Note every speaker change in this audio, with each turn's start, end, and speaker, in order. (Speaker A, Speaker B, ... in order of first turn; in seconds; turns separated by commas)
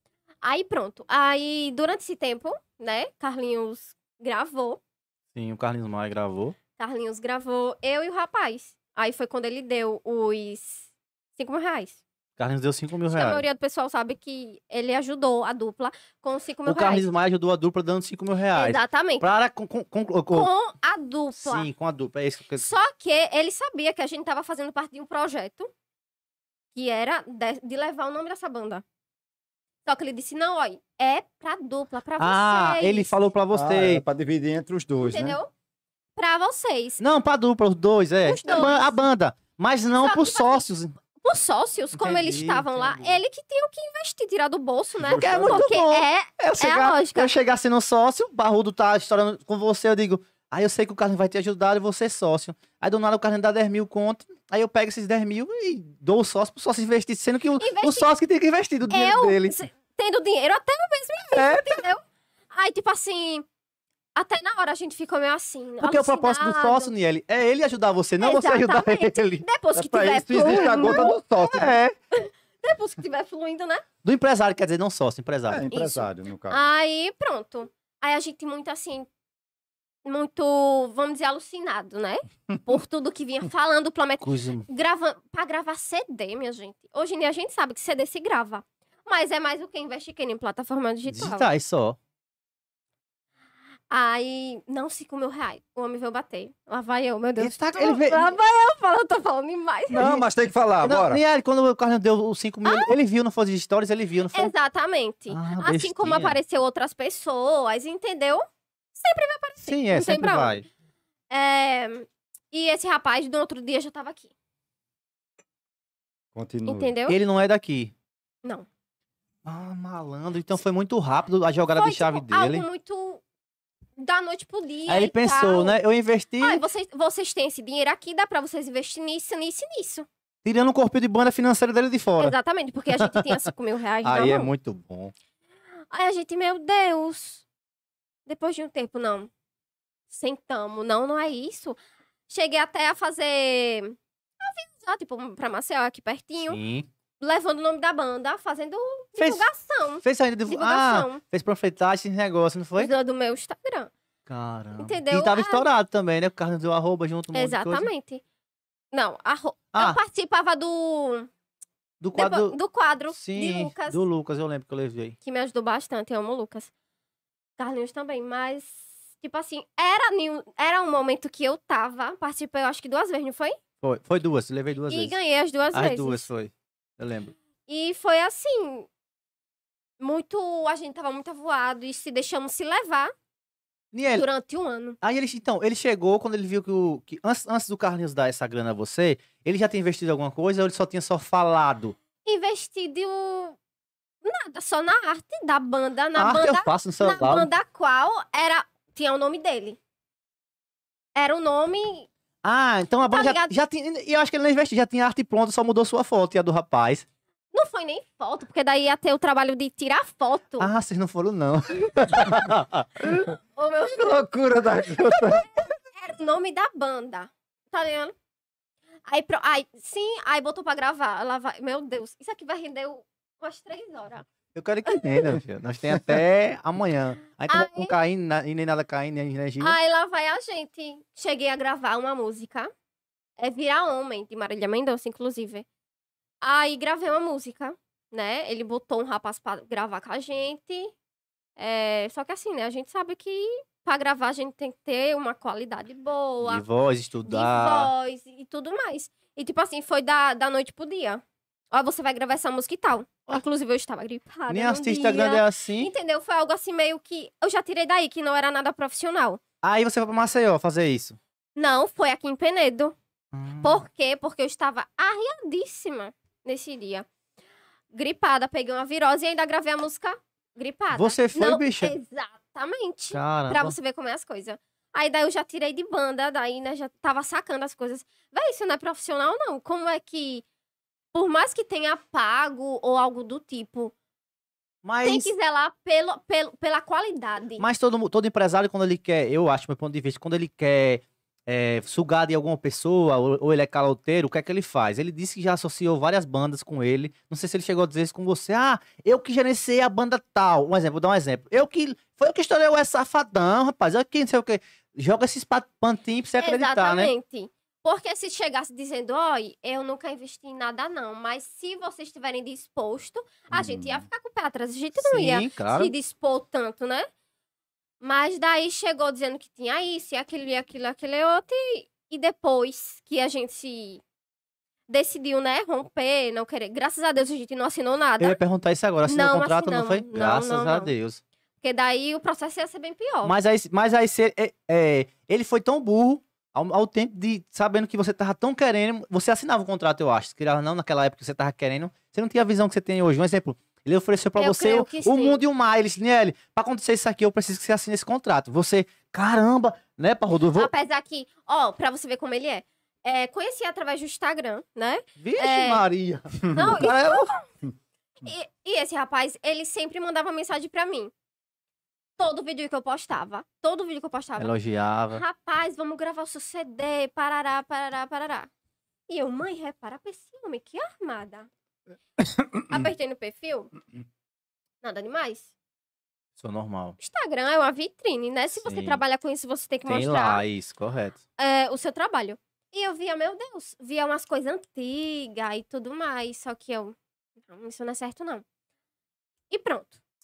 Speaker A: 0.4-4.8, Speaker B: 5.3-6.5, Speaker A: 6.8-12.0, Speaker B: 12.4-13.4, Speaker A: 13.1-17.1, Speaker B: 16.6-20.5, Speaker A: 18.5-19.2, Speaker A: 20.3-21.7, Speaker B: 21.4-22.7, Speaker A: 22.6-25.7, Speaker A: 26.7-28.8, Speaker A: 29.8-33.1, Speaker B: 32.2-34.0, Speaker C: 33.5-35.4, Speaker A: 35.0-35.5, Speaker A: 36.2-37.0, Speaker B: 37.0-40.9, Speaker A: 38.2-39.0, Speaker A: 40.0-40.6, Speaker A: 41.2-47.3, Speaker B: 41.9-43.2, Speaker C: 45.0-45.7, Speaker B: 45.2-59.6, Speaker A: 57.6-58.1, Speaker A: 58.9-63.4, Speaker B: 61.3-61.8, Speaker A: 64.2-66.9, Speaker B: 65.8-69.5, Speaker A: 68.2-73.8, Speaker C: 69.7-71.7, Speaker B: 70.5-71.9, Speaker B: 74.0-75.7, Speaker C: 75.5-76.6, Speaker A: 75.7-79.1, Speaker A: 80.0-91.5, Speaker B: 84.2-84.7, Speaker B: 91.1-92.0, Speaker A: 93.9-100.0, Speaker B: 97.4-98.3, Speaker C: 99.9-101.2, Speaker B: 100.0-100.3, Speaker B: 100.8-104.5, Speaker A: 102.6-102.9, Speaker A: 104.3-108.4, Speaker B: 105.3-106.4, Speaker A: 108.9-110.6, Speaker B: 109.6-110.6, Speaker A: 111.3-114.3, Speaker C: 116.3-116.9, Speaker A: 116.7-117.2, Speaker B: 117.1-117.9, Speaker B: 119.4-122.7, Speaker A: 121.7-123.2, Speaker A: 124.0-125.8, Speaker B: 124.8-126.6, Speaker A: 126.4-130.1, Speaker B: 130.4-132.3, Speaker A: 132.2-134.5, Speaker B: 132.9-133.4, Speaker B: 134.0-135.1, Speaker A: 135.9-137.4, Speaker A: 138.2-139.3, Speaker A: 140.1-141.8, Speaker A: 142.3-146.6, Speaker B: 146.4-146.9, Speaker A: 147.2-151.2, Speaker B: 149.2-152.9, Speaker A: 152.8-153.9, Speaker B: 154.3-157.9, Speaker A: 154.8-155.6, Speaker A: 157.3-158.2, Speaker A: 158.9-161.3, Speaker B: 159.7-160.0, Speaker B: 162.0-162.6, Speaker A: 162.1-164.0, Speaker B: 163.1-165.1, Speaker A: 165.2-166.7, Speaker A: 167.6-173.6, Speaker B: 173.8-175.2, Speaker A: 174.9-176.3, Speaker B: 175.7-177.3, Speaker A: 177.7-178.9, Speaker A: 180.0-183.1, Speaker B: 183.9-184.3, Speaker A: 184.1-185.0, Speaker B: 185.0-191.9, Speaker A: 192.2-193.6, Speaker A: 194.2-199.8, Speaker B: 196.2-197.5, Speaker A: 201.2-202.1, Speaker B: 202.4-207.0, Speaker A: 203.1-203.5, Speaker A: 207.5-210.7, Speaker B: 210.6-213.3, Speaker A: 213.6-214.3, Speaker C: 213.8-215.6, Speaker A: 215.6-218.1, Speaker A: 219.1-224.3, Speaker B: 224.5-229.8, Speaker A: 224.8-225.3, Speaker A: 227.5-227.9, Speaker A: 229.6-232.7, Speaker A: 233.4-235.7, Speaker A: 236.4-240.9, Speaker A: 241.6-246.6, Speaker B: 246.4-247.9, Speaker A: 247.2-251.2, Speaker A: 251.7-259.4, Speaker B: 254.5-255.9, Speaker B: 259.6-261.2, Speaker A: 261.6-262.9, Speaker B: 263.3-263.8, Speaker A: 263.6-267.1, Speaker A: 267.9-280.4, Speaker B: 270.9-271.9, Speaker B: 273.1-273.8, Speaker A: 281.1-283.9, Speaker B: 284.8-285.3, Speaker A: 285.0-287.6, Speaker B: 287.6-307.1, Speaker A: 306.4-317.1, Speaker B: 313.5-314.0, Speaker B: 314.9-315.9, Speaker A: 318.0-324.0, Speaker A: 324.9-328.4, Speaker B: 328.2-331.2, Speaker A: 329.1-330.9, Speaker A: 331.6-333.3, Speaker B: 333.2-350.7, Speaker A: 344.4-345.4, Speaker A: 350.5-355.8, Speaker B: 355.2-357.3, Speaker A: 356.5-357.4, Speaker A: 358.2-361.1, Speaker A: 362.2-364.5, Speaker B: 364.4-365.2, Speaker A: 365.1-368.5, Speaker A: 369.1-371.5, Speaker A: 372.6-373.7, Speaker A: 374.8-375.5, Speaker B: 376.4-377.0, Speaker A: 377.0-380.4, Speaker B: 378.6-379.0, Speaker B: 379.8-381.2, Speaker A: 381.4-386.9, Speaker A: 387.5-388.4, Speaker A: 389.5-390.0